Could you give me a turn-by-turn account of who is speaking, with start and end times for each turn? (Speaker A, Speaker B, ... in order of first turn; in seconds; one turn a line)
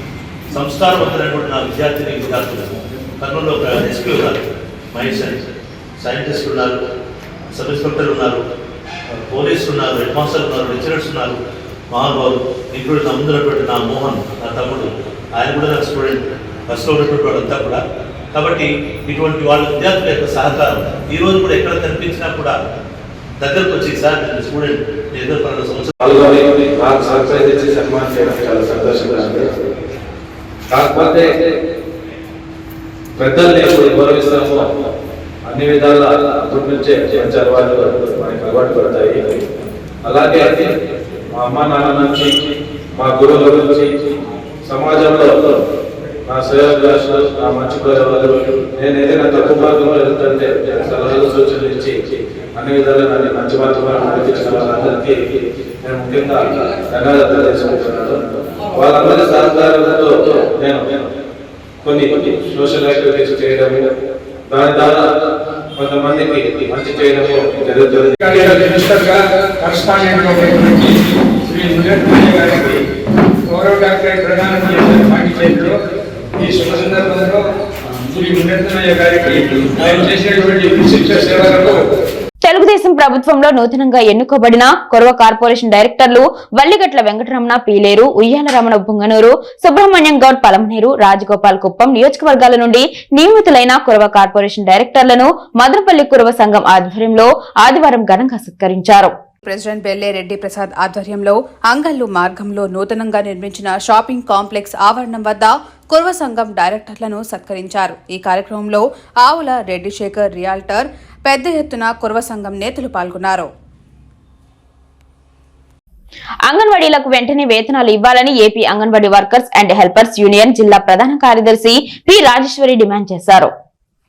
Speaker A: 0.5-4.4
Speaker A: 4.9-5.4
Speaker A: 6.0-6.7
Speaker A: 7.5-8.4
Speaker A: 9.3-11.4
Speaker A: 11.9-17.8
Speaker A: 18.3-22.6
Speaker A: 23.4-25.9
Speaker B: 26.0-29.5
Speaker B: 30.7-31.3
Speaker B: 33.2-34.7
Speaker B: 35.5-39.4
Speaker B: 40.1-40.7
Speaker B: 41.4-42.3
Speaker B: 43.0-44.1
Speaker B: 44.7-45.5
Speaker B: 46.3-52.0
Speaker B: 52.6-55.2
Speaker B: 55.8-61.0
Speaker B: 61.8-63.9
Speaker B: 64.5-65.1
Speaker B: 65.8-68.2
Speaker C: 68.2-72.8
Speaker C: 73.5-75.8
Speaker C: 76.4-77.4
Speaker C: 78.0-81.8
Speaker D: 82.4-99.1
Speaker E: 99.5-113.5
Speaker D: 116.5-123.5